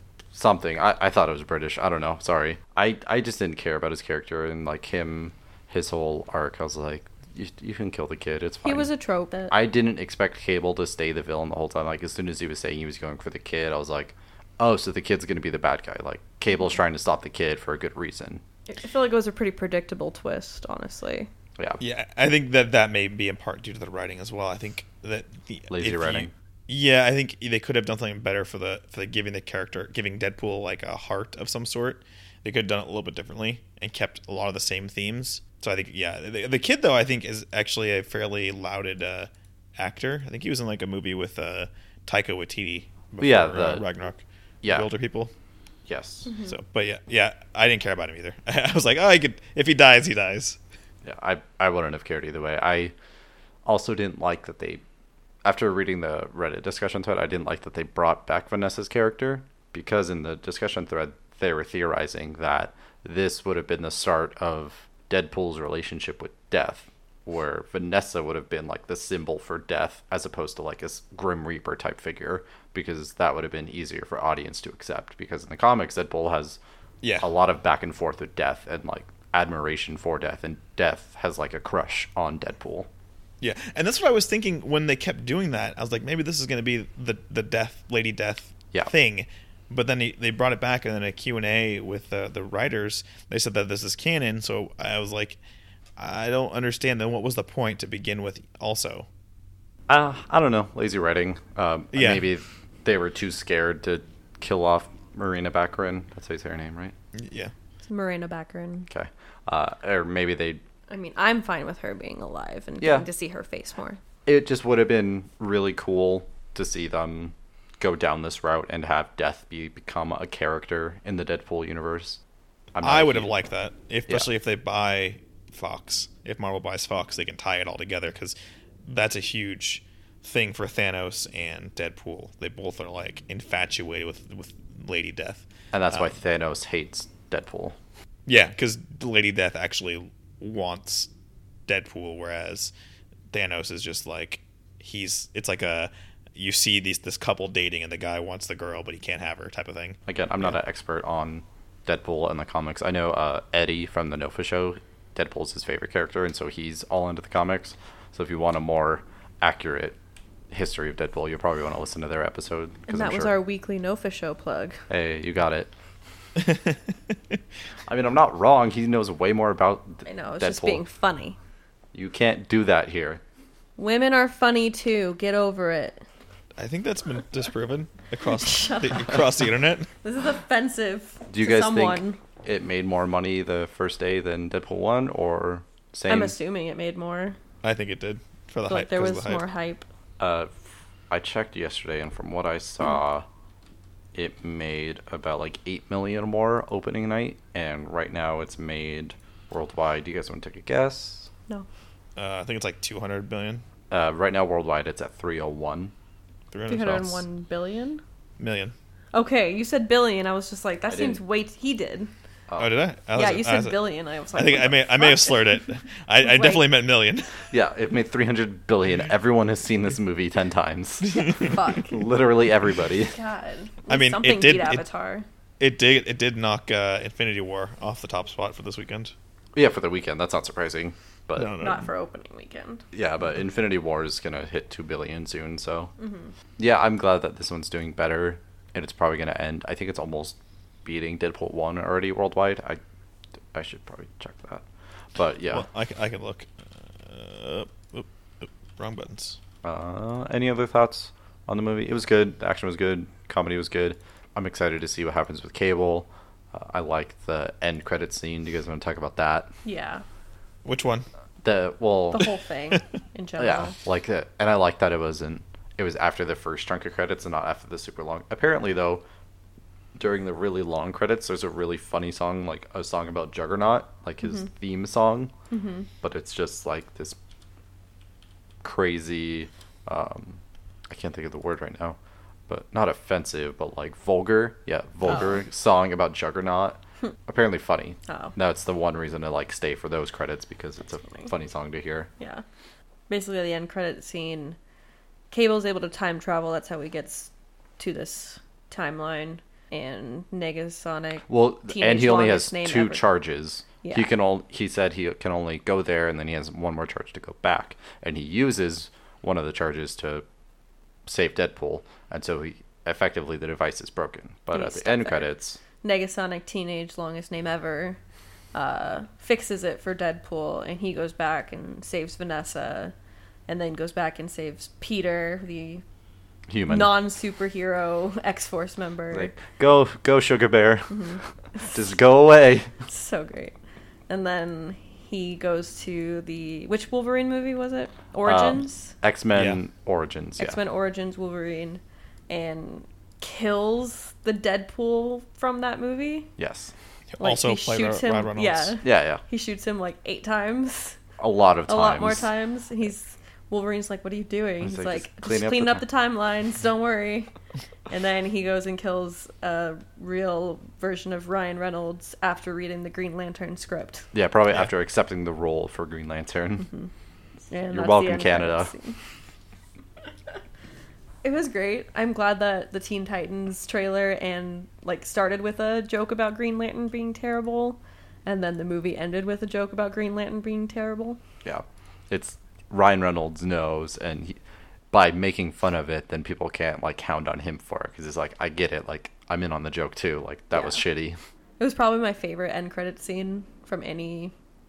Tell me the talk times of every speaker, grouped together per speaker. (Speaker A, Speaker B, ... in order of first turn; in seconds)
Speaker A: 0.3-8.9, 9.5-18.4, 25.7-26.3, 43.2-43.8, 44.6-44.9, 45.9-46.3, 51.0-52.9, 53.6-54.8, 55.4-76.6, 77.2-82.9, 99.9-106.9, 108.9-110.6, 112.8-113.0, 114.2-122.2, 122.7-123.3, 135.7-137.8, 150.1-160.0, 160.5-163.3, 164.9-165.7, 167.9-170.8, 171.9-173.2, 181.3-186.3, 190.2-190.5, 191.1-193.2, 194.1-201.3, 203.9-205.9, 210.9-211.2, 212.5-212.8, 217.5-223.1, 229.5-231.6, 232.9-235.9, 236.6-242.8, 243.5-244.6, 245.1-245.7, 249.6-259.5, 261.4-262.3, 263.4-269.0, 269.9-275.3, 276.0-277.2, 278.6-282.0, 282.5-292.1, 301.3-310.2, 311.1-315.6, 326.5-327.1, 329.1-331.1, 331.7-332.7, 338.2-340.6, 346.4-346.7, 348.8-349.2, 351.2-352.3, 354.6-355.8, 364.1-366.7, 367.7-368.7, 381.4-384.4, 384.9-391.2
Speaker B: 8.6-9.5, 18.7-21.3, 46.3-46.6, 107.8-108.9, 110.9-114.0, 162.9-164.8, 170.0-171.4, 173.8-176.0, 178.4-179.2, 180.0-182.2, 186.1-187.4, 188.7-189.8, 206.7-208.0, 209.1-212.1, 213.1-215.6, 216.2-216.7, 221.1-222.1, 223.1-225.2, 231.6-232.8, 236.0-236.3, 259.6-260.0, 262.1-263.7, 275.5-275.9, 288.1-288.3, 292.2-292.4, 293.1-294.6, 295.3-303.1, 303.8-304.1, 314.5-315.3, 315.8-318.0, 318.5-322.9, 323.5-325.8, 326.7-329.3, 330.9-331.7, 332.9-333.5, 334.1-338.9, 340.4-346.3, 347.2-351.0, 351.7-357.3, 357.9-364.1, 367.5-369.0, 371.2-381.2, 390.5-390.8, 391.6-394.3
Speaker C: 21.8-45.3, 46.5-50.6, 77.0-77.3, 83.4-95.4, 96.0-99.1, 101.9-102.2, 107.1-107.5, 122.8-136.1, 138.2-141.1, 141.7-142.7, 143.3-150.0, 166.4-167.4, 176.6-179.9, 187.6-189.4, 202.2-203.6, 206.5-207.2, 208.4-208.7, 212.6-217.4, 223.9-224.8, 225.6-229.1, 231.4-231.9, 245.5-249.4, 260.6-261.1, 339.3-339.6, 347.1-348.8